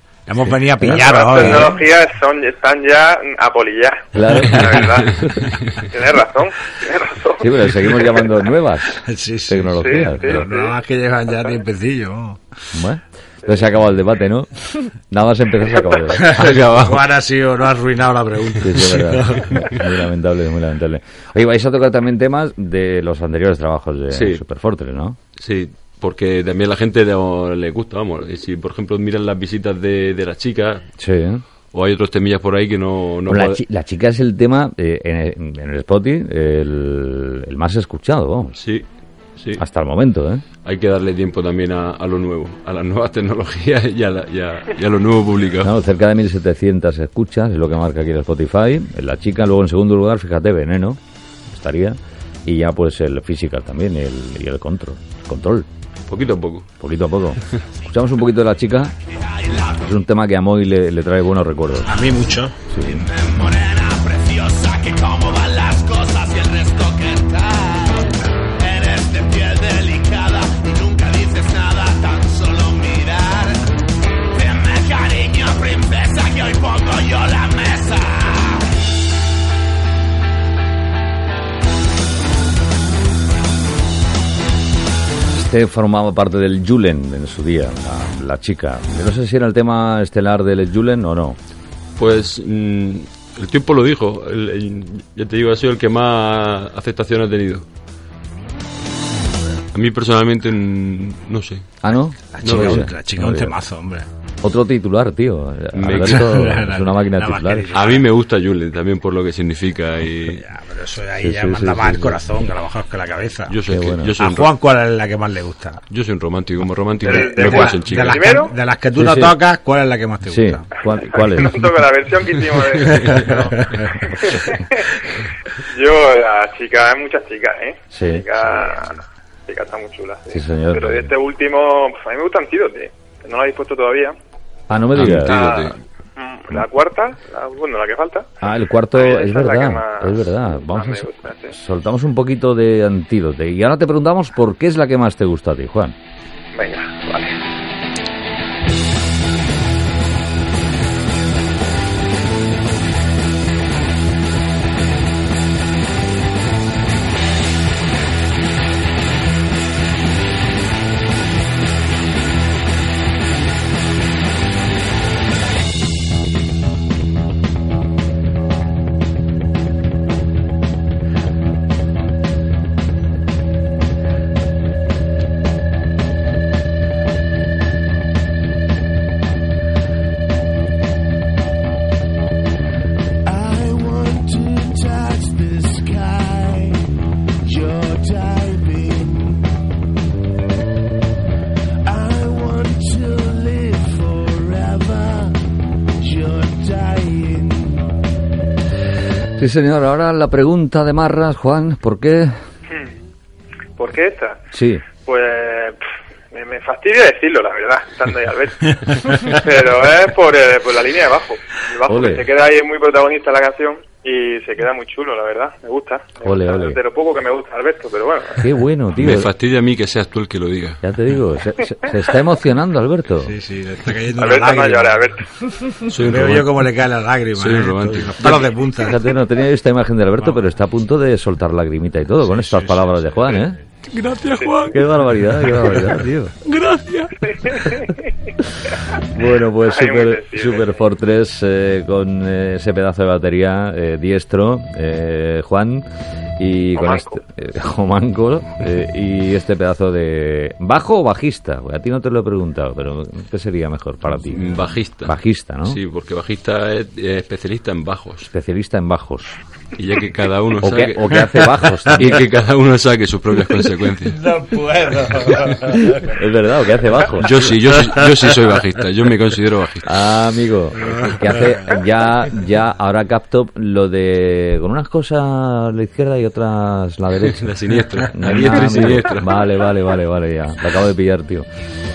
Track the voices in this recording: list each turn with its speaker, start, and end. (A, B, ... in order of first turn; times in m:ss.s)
0:00.3-0:01.8 A
0:00.8-0:01.7 B
0:00.8-0:07.7 C
0:04.1-0:05.3 B
0:07.4-0:10.4 B
0:09.0-0:12.4 A
0:09.8-0:10.7 C
0:12.7-0:16.6 B
0:16.1-0:19.8 A
0:16.2-0:17.0 D
0:18.6-0:25.2 B
0:24.1-0:24.4 D
0:25.4-0:30.8 D
0:31.0-0:31.4 B
0:31.7-0:33.6 D
0:33.3-0:38.6 B
0:38.6-0:38.8 D
0:39.4-0:39.6 D
0:39.6-0:40.4 B
0:40.6-0:45.7 D
0:45.6-0:55.7 B
0:56.1-0:56.7 D
0:56.8-0:58.9 B
0:59.6-1:02.0 B
1:01.8-1:02.9 A
1:02.7-1:03.1 B
1:03.1-1:13.6 E
1:14.3-1:18.7 E
1:25.3-1:31.4 B
1:32.0-1:37.6 D
1:39.7-1:41.7 D
1:41.8-1:43.5 B
1:42.3-1:44.1 A
1:42.4-1:42.9 D
1:44.4-1:47.7 B
1:45.7-1:46.6 D
1:45.9-1:48.1 A
1:47.7-1:50.4 D
1:50.2-1:53.6 A
1:51.2-1:52.2 B
1:53.5-1:54.5 D
1:53.6-1:54.2 B
1:54.2-1:55.8 A
1:55.9-1:58.2 D
1:57.0-2:00.7 A
1:57.0-1:58.5 C
1:58.9-1:59.4 B
2:00.3-2:01.8 B
2:01.1-2:05.0 C
2:02.7-2:04.0 A
2:04.1-2:04.6 B
2:05.6-2:14.2 C
2:07.9-2:08.2 B
2:10.3-2:11.1 B
2:14.7-2:15.3 B
2:14.9-2:15.8 D
2:15.1-2:18.3 C
2:18.4-2:25.9 B
2:18.9-2:21.6 C
2:26.5-2:27.4 C
3:03.2-3:06.9 E
3:07.4-3:09.5 E
3:11.8-3:15.4 E
3:16.0-3:18.0 E
3:19.4-3:22.3 B
3:23.8-3:24.4 C
3:24.5-3:24.8 B
3:25.0-3:38.5 C
3:31.9-3:32.2 B
3:36.2-3:36.8 B
3:38.4-3:39.3 B
3:38.9-3:40.8 D
3:40.8-3:43.3 B
3:43.2-3:45.0 A
3:44.2-3:45.2 C
3:45.8-3:46.6 D
3:46.0-3:49.0 A
3:47.3-3:48.5 D
3:48.8-3:53.6 B
3:52.2-3:53.4 A
3:53.9-3:57.3 D
3:54.7-3:56.3 B
3:57.3-3:58.1 C
3:58.9-4:05.9 B
3:59.6-4:00.7 C
4:06.4-4:15.8 B
4:06.7-4:07.2 C
4:14.3-4:18.3 D
4:18.3-4:19.4 B
4:19.8-4:21.4 D
4:20.6-4:22.2 B
4:22.0-4:24.2 D
4:24.1-4:26.1 A
4:25.8-4:27.6 B
4:27.2-4:29.9 D
4:29.8-4:41.5 B
4:37.3-4:39.4 D